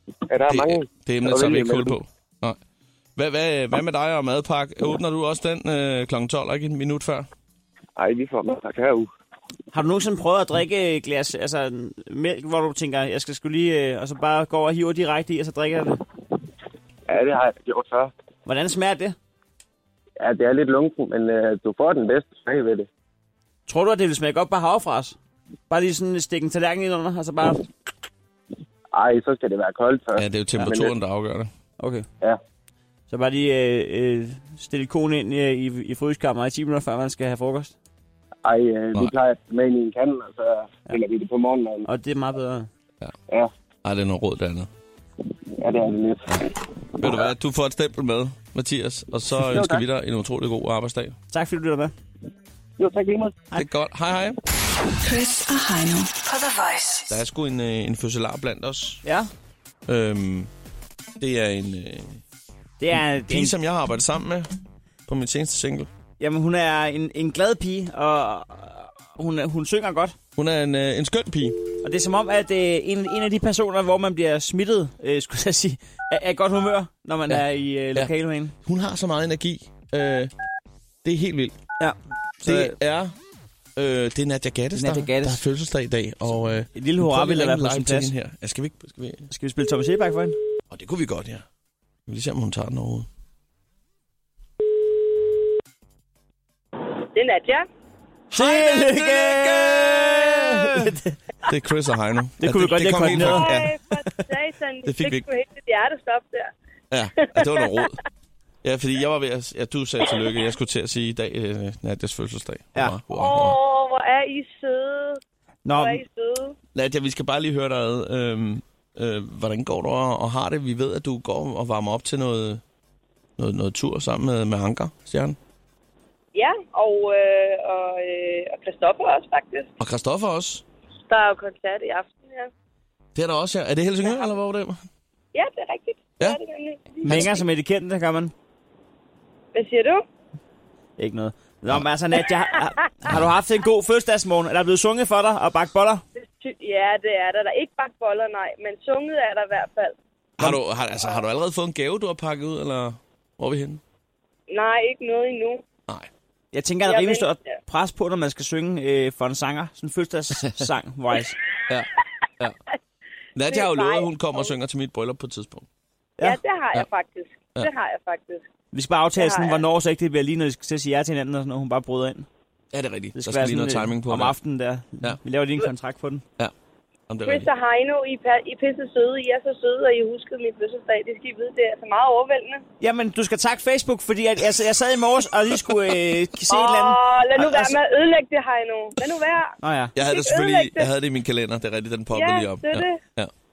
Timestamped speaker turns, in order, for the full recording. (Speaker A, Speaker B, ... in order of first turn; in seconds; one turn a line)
Speaker A: 0.3-2.0
Speaker B: 0.5-2.6
Speaker B: 3.2-7.3
Speaker A: 8.0-9.1
Speaker C: 9.7-16.0
Speaker A: 17.1-18.1
Speaker C: 18.5-19.2
Speaker A: 20.2-22.9
Speaker C: 23.7-25.2
Speaker C: 25.7-27.6
Speaker A: 28.9-30.9
Speaker B: 30.2-31.5
Speaker C: 31.8-32.1
Speaker C: 33.1-37.7
Speaker A: 38.5-41.9
Speaker C: 41.9-42.7
Speaker B: 43.8-44.7
Speaker A: 45.6-47.2
Speaker B: 47.0-51.2
Speaker A: 49.4-49.9
Speaker C: 51.3-51.9
Speaker A: 52.8-53.3
Speaker B: 53.5-54.4
Speaker D: 55.0-57.1
Speaker B: 57.1-59.0
Speaker C: 59.0-59.3
Speaker B: 59.9-60.5
Speaker B: 61.2-62.2
Speaker C: 62.8-63.5
Speaker B: 63.3-64.5
Speaker B: 65.1-65.9
Speaker C: 66.2-70.2
Speaker B: 70.4-71.7
Speaker C: 71.8-78.5
Speaker B: 78.6-80.3
Speaker B: 81.0-81.5
Speaker C: 81.8-82.8
Speaker B: 82.4-83.1
Speaker B: 83.8-89.3
Speaker C: 84.8-85.4
Speaker C: 86.7-88.1
Speaker C: 89.3-90.4
Speaker B: 90.7-91.4
Speaker B: 92.1-93.1
Speaker E: 97.2-97.6
Speaker B: 98.3-100.9
Speaker C: 98.3-101.2
Speaker B: 101.5-103.8
Speaker C: 102.4-103.5
Speaker E: 103.5-106.5
Speaker B: 104.8-105.2
Speaker B: 106.9-108.0
Speaker B: 108.6-113.6
Speaker E: 113.2-115.0
Speaker C: 115.7-116.0
Speaker E: 115.8-116.5
Speaker B: 116.8-122.6
Speaker B: 123.4-125.4
Speaker E: 126.3-129.7
Speaker B: 129.8-130.6
Speaker E: 131.1-132.5
Speaker B: 133.2-134.8
Speaker E: 135.3-137.2
Speaker B: 137.1-137.3
Speaker C: 137.1-138.3
Speaker E: 139.6-140.0
Speaker C: 141.0-146.0
Speaker E: 146.4-149.9
Speaker B: 150.4-153.8
Speaker E: 154.5-155.6
Speaker C: 156.5-161.4
Speaker E: 156.9-157.3
Speaker B: 161.7-162.6
Speaker B: 163.3-165.7
Speaker E: 163.6-164.1
Speaker E: 166.2-168.4
Speaker C: 168.7-172.3
Speaker E: 169.2-169.6
Speaker B: 172.7-174.4
Speaker C: 173.2-176.2
Speaker B: 175.0-175.6
Speaker B: 177.1-177.5
Speaker E: 177.3-182.6
Speaker C: 182.8-187.8
Speaker E: 186.5-189.5
Speaker C: 189.6-189.9
Speaker B: 189.9-193.3
Speaker E: 190.2-190.8
Speaker E: 192.2-192.8